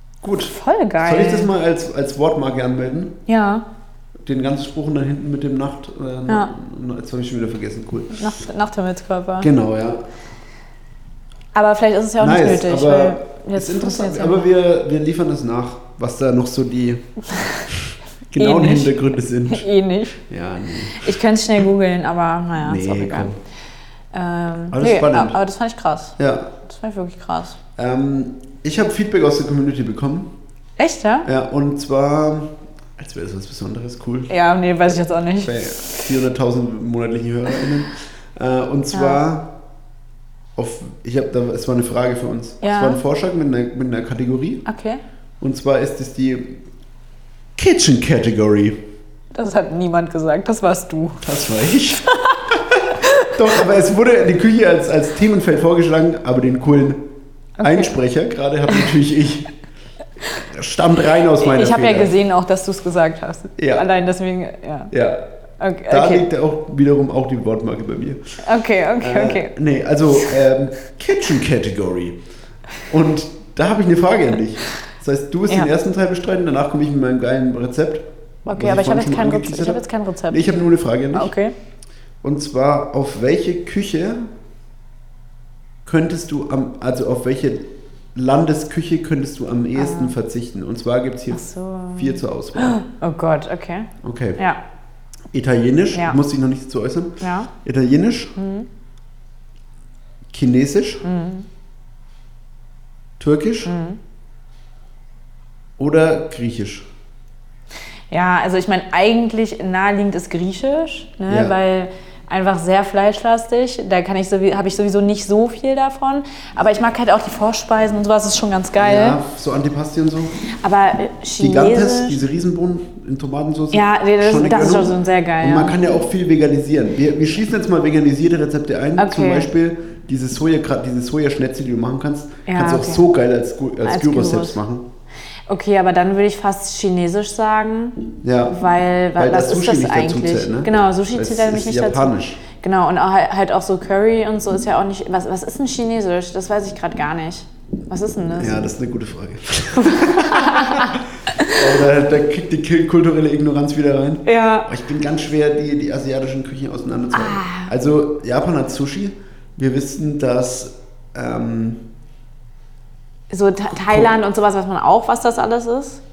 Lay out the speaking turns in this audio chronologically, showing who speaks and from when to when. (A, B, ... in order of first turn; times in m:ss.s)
0:00.2-0:03.2 A
0:00.4-0:01.5 B
0:03.3-0:03.6 B
0:04.2-0:08.4 A
0:06.3-0:06.5 B
0:08.1-0:09.5 B
0:09.4-0:10.0 A
0:11.5-0:14.5 B
0:12.2-0:21.1 A
0:17.3-0:17.6 B
0:18.4-0:19.0 B
0:19.5-0:20.2 B
0:20.9-0:23.3 B
0:22.6-0:23.4 A
0:24.1-0:27.6 B
0:24.7-0:25.4 A
0:26.2-0:26.5 A
0:27.8-0:30.3 A
0:30.8-0:31.3 B
0:31.2-0:34.3 A
0:34.3-0:36.1 B
0:35.4-0:39.5 A
0:38.9-0:39.2 B
0:40.6-0:44.6 A
0:42.6-0:43.0 B
0:44.6-0:45.0 B
0:45.4-0:46.6 A
0:47.6-0:48.8 A
0:49.3-0:51.4 B
0:51.2-0:59.5 A
0:52.0-0:53.4 B
0:57.6-0:57.9 B
1:00.3-1:02.1 A
1:01.3-1:04.9 B
1:03.6-1:03.8 A
1:04.9-1:05.3 A
1:05.6-1:06.2 B
1:05.9-1:08.2 A
1:08.4-1:09.5 B
1:09.0-1:12.2 A
1:12.9-1:21.3 A
1:18.4-1:20.4 B
1:21.1-1:21.5 B
1:22.2-1:24.3 A
1:25.8-1:32.8 A
1:29.8-1:30.1 B
1:31.3-1:34.6 B
1:34.0-1:34.4 A
1:35.3-1:38.3 A
1:35.9-1:36.2 B
1:37.2-1:37.5 B
1:38.4-1:38.7 B
1:40.3-1:41.0 A
1:41.0-1:41.5 B
1:43.2-1:43.7 A
1:43.6-1:44.0 B
1:45.8-1:46.8 A
1:48.1-1:59.2 B
1:51.3-1:51.6 A
1:58.8-2:00.4 A
2:00.6-2:02.2 B
2:01.4-2:14.9 A
2:03.7-2:05.8 B
2:09.0-2:09.5 B
2:12.4-2:13.0 B
2:13.8-2:14.6 B
2:15.5-2:28.6 B
2:18.2-2:18.6 A
2:19.2-2:22.4 A
2:28.4-2:41.8 A
2:29.8-2:31.6 B
2:34.2-2:34.7 B
2:37.1-2:37.7 B
2:43.3-2:46.0 B
2:43.7-2:44.2 A